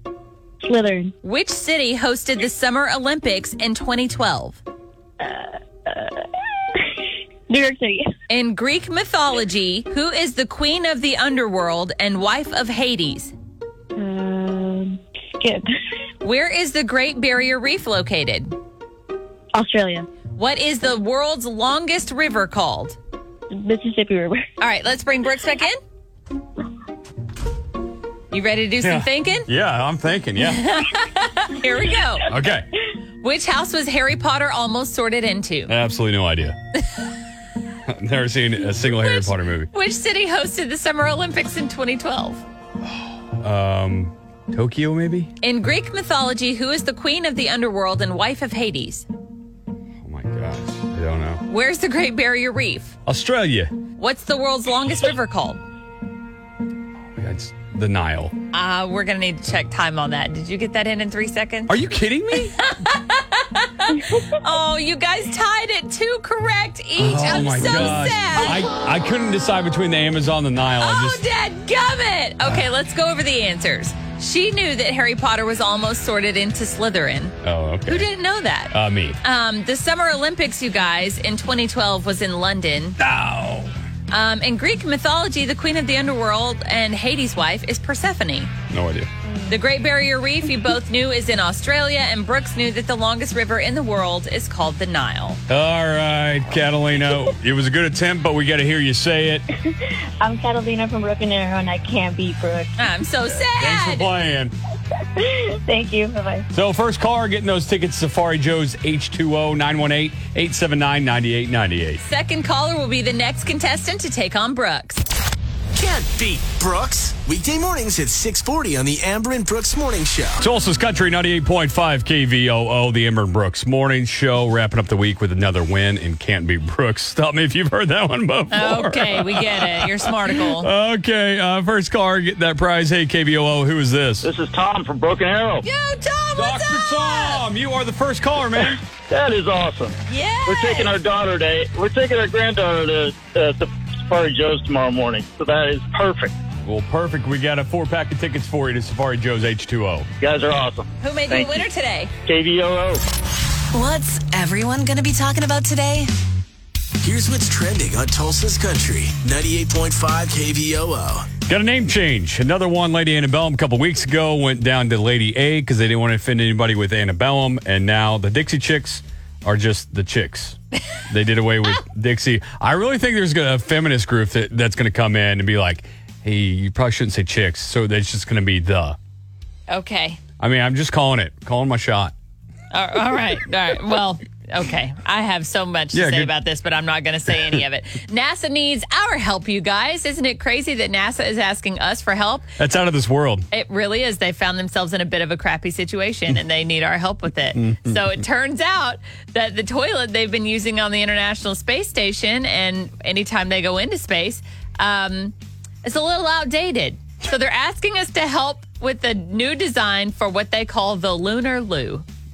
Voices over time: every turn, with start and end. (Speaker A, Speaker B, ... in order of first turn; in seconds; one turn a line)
Speaker A: 0.6-1.1
Speaker B: 1.2-4.6
Speaker A: 5.2-6.1
Speaker A: 7.5-8.1
Speaker B: 8.3-13.3
Speaker A: 14.0-15.7
Speaker B: 16.2-18.6
Speaker A: 19.5-20.1
Speaker B: 20.4-23.0
Speaker A: 23.5-24.5
Speaker B: 24.6-25.8
Speaker B: 28.3-29.5
Speaker C: 28.8-30.7
Speaker B: 30.4-32.4
Speaker C: 32.3-32.6
Speaker B: 33.2-35.7
Speaker C: 35.7-36.5
Speaker C: 37.9-39.7
Speaker B: 38.8-42.4
Speaker C: 43.4-45.3
Speaker B: 45.4-49.1
Speaker C: 50.0-51.4
Speaker B: 51.5-53.0
Speaker C: 53.1-53.7
Speaker B: 54.0-55.6
Speaker C: 57.2-58.3
Speaker B: 58.5-61.8
Speaker C: 61.7-62.6
Speaker B: 62.4-68.7
Speaker C: 67.0-71.2
Speaker B: 70.8-83.0
Speaker C: 77.4-78.1
Speaker C: 78.7-79.2
Speaker C: 83.0-83.7
Speaker B: 84.1-88.5
Speaker C: 88.7-89.1
Speaker B: 89.5-95.4
Speaker C: 95.5-99.4
Speaker A: 100.2-102.8
Speaker B: 102.8-104.1
Speaker C: 103.6-104.5
Speaker A: 105.6-106.5
Speaker C: 106.5-112.0
Speaker B: 112.0-115.0
Speaker D: 115.8-120.5
Speaker C: 120.4-134.3
Speaker B: 128.5-130.7
Speaker E: 134.2-135.6
Speaker B: 135.6-137.4
Speaker C: 136.3-138.8
Speaker E: 139.1-146.3
Speaker B: 140.1-141.0
Speaker C: 146.6-150.1
Speaker E: 150.2-151.7
Speaker B: 151.0-152.1
Speaker E: 152.2-153.0
Speaker F: 153.7-156.1
Speaker D: 157.0-161.3
Speaker C: 161.5-170.6
Speaker C: 171.1-179.0
Speaker B: 179.7-180.2
Speaker C: 180.4-182.1
Speaker B: 182.7-192.5
Speaker C: 185.9-186.3
Speaker C: 192.6-193.5
Speaker B: 193.5-212.1
Speaker C: 197.6-198.0